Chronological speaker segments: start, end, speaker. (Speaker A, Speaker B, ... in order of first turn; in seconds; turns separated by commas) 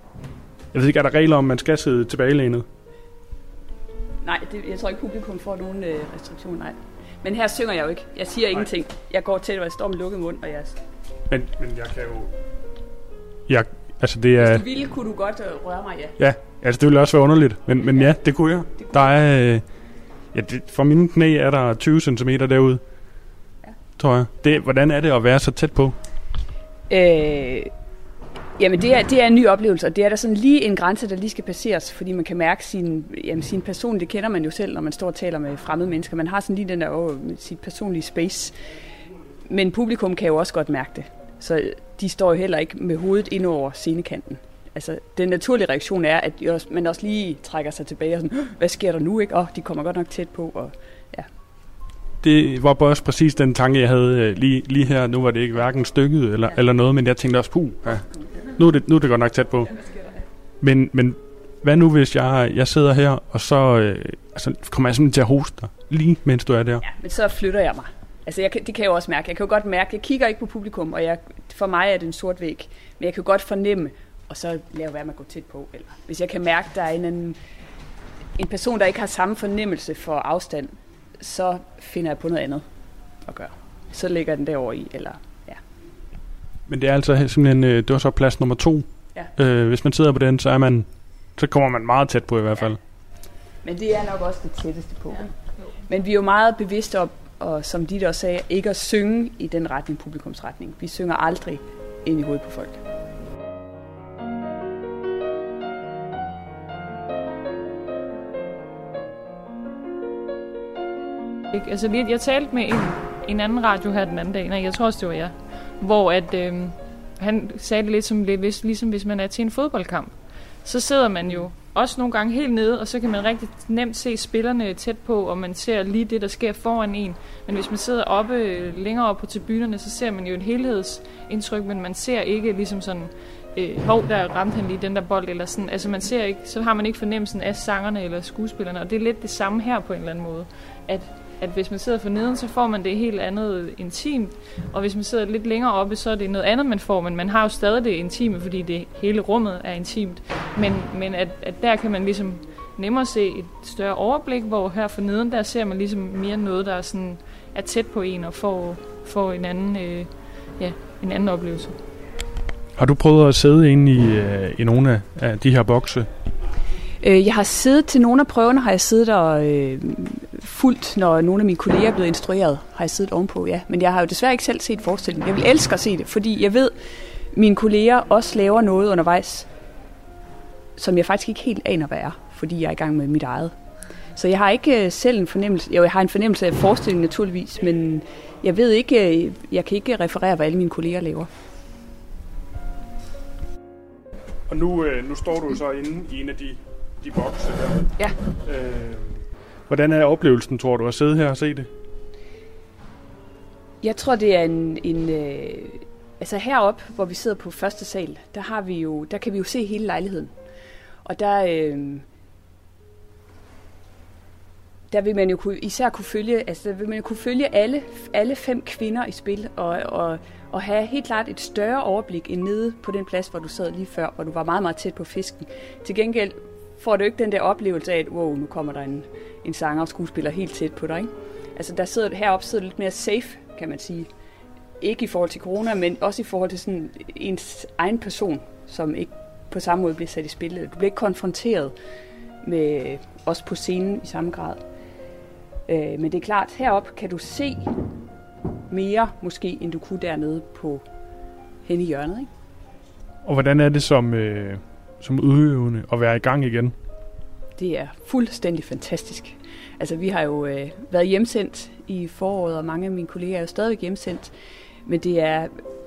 Speaker A: 0.7-2.6, Speaker B: 4.2-10.8, Speaker A: 11.3-12.3, Speaker A: 13.5-14.6, Speaker B: 14.4-16.2, Speaker A: 16.2-22.9, Speaker B: 17.9-19.1, Speaker A: 23.9-26.0, Speaker B: 26.9-27.7, Speaker B: 28.6-38.6, Speaker B: 39.5-51.3, Speaker A: 52.2-59.7, Speaker B: 58.1-58.5, Speaker B: 59.7-60.2, Speaker A: 60.6-66.8, Speaker B: 66.8-77.4, Speaker B: 78.4-82.7, Speaker B: 83.2-85.6, Speaker A: 86.7-92.8, Speaker B: 93.6-95.3, Speaker B: 95.8-102.8, Speaker C: 111.5-161.8, Speaker A: 162.8-166.1, Speaker B: 167.0-176.7, Speaker B: 177.3-179.5, Speaker B: 180.8-191.3, Speaker A: 194.5-201.7, Speaker B: 203.8-210.3, Speaker B: 211.0-212.0, Speaker B: 214.9-234.1, Speaker B: 234.8-241.7, Speaker B: 242.4-244.6, Speaker B: 245.7-247.7, Speaker B: 248.7-250.8, Speaker B: 251.6-252.3, Speaker A: 253.2-256.7, Speaker B: 257.6-264.3, Speaker B: 264.9-265.6